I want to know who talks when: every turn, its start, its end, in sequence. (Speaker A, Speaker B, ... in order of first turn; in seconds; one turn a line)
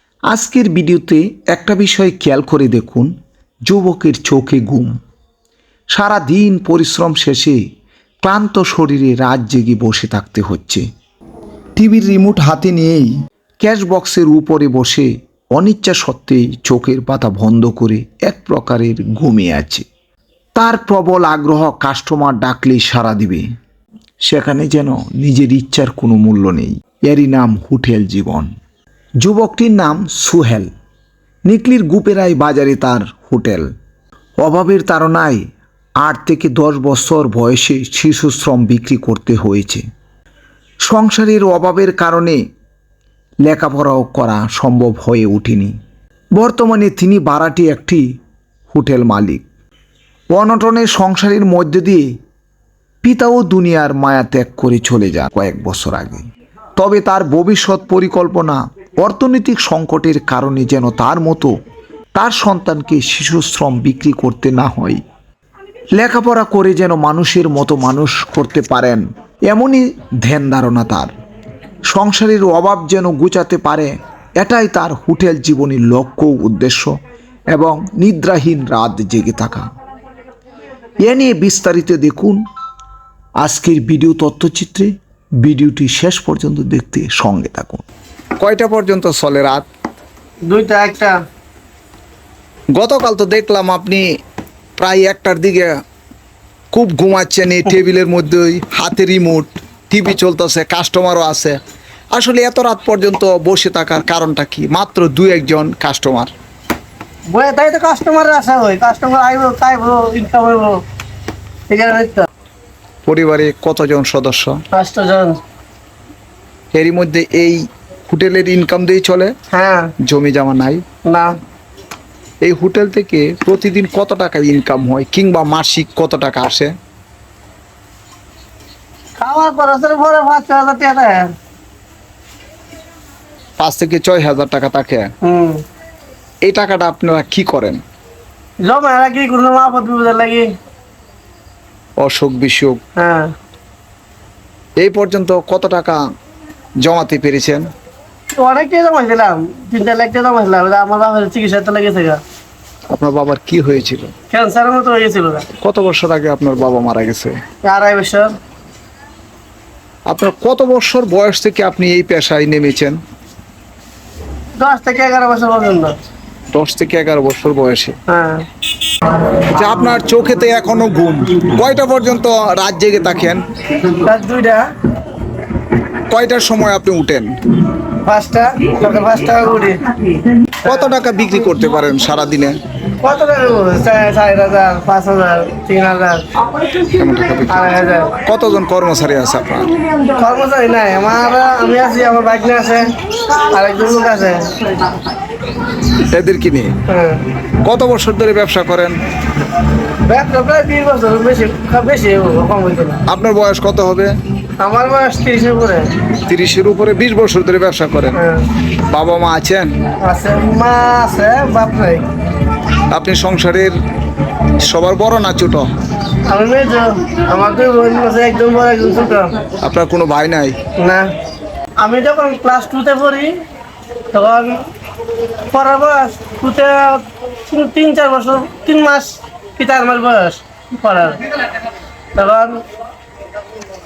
Speaker A: 0.3-3.1
Speaker A: 3.7-5.0
Speaker A: 6.0-7.6
Speaker A: 8.2-10.8
Speaker A: 11.8-19.9
Speaker A: 20.6-23.5
Speaker A: 24.3-28.5
Speaker A: 29.2-30.7
Speaker A: 31.5-33.7
Speaker A: 34.4-35.4
Speaker A: 36.0-39.8
Speaker A: 40.9-42.4
Speaker A: 43.5-45.7
Speaker A: 46.4-48.0
Speaker A: 48.7-49.4
Speaker A: 50.3-52.1
Speaker A: 53.0-56.2
Speaker A: 56.8-61.5
Speaker A: 62.1-65.0
Speaker A: 66.0-71.1
Speaker A: 71.9-77.0
Speaker A: 77.5-79.7
Speaker A: 81.0-82.4
Speaker A: 83.4-84.9
Speaker A: 85.4-87.8
Speaker A: 88.4-89.7
Speaker B: 90.5-91.2
Speaker A: 92.8-94.0
Speaker A: 94.8-95.7
Speaker A: 96.7-101.6
Speaker A: 102.2-106.3
Speaker B: 107.3-110.8
Speaker B: 111.7-112.3
Speaker A: 113.1-114.6
Speaker B: 114.7-115.4
Speaker A: 116.7-119.3
Speaker B: 119.5-119.9
Speaker A: 120.0-120.8
Speaker B: 121.1-121.3
Speaker A: 122.4-126.7
Speaker B: 129.2-131.3
Speaker A: 133.6-135.1
Speaker B: 135.2-135.6
Speaker A: 136.4-137.8
Speaker B: 138.6-140.5
Speaker A: 142.0-142.8
Speaker B: 143.0-143.3
Speaker A: 144.8-146.0
Speaker A: 146.8-147.7
Speaker B: 148.3-152.2
Speaker A: 152.9-154.1
Speaker B: 154.3-155.5
Speaker A: 155.6-157.3
Speaker B: 157.6-158.3
Speaker A: 160.1-163.0
Speaker B: 164.6-165.9
Speaker A: 166.5-167.9
Speaker B: 168.1-168.5
Speaker A: 169.5-173.4
Speaker B: 173.9-174.7
Speaker A: 176.1-177.3
Speaker B: 178.0-179.9
Speaker A: 180.6-182.6
Speaker B: 183.0-186.3
Speaker A: 186.9-187.6
Speaker B: 187.5-188.2
Speaker A: 188.2-189.7
Speaker B: 190.1-194.9
Speaker A: 196.1-196.7
Speaker B: 196.9-197.2
Speaker A: 197.6-199.0
Speaker B: 200.1-203.0
Speaker A: 203.1-204.1
Speaker B: 204.6-205.9
Speaker A: 206.2-208.2
Speaker B: 208.2-208.5
Speaker A: 208.9-209.7
Speaker B: 210.0-212.1
Speaker A: 212.9-213.7
Speaker A: 214.6-215.7
Speaker B: 216.3-219.3
Speaker A: 219.6-220.6
Speaker B: 220.8-221.1
Speaker B: 221.8-223.3
Speaker B: 224.1-224.5
Speaker B: 225.5-231.2
Speaker B: 232.2-232.5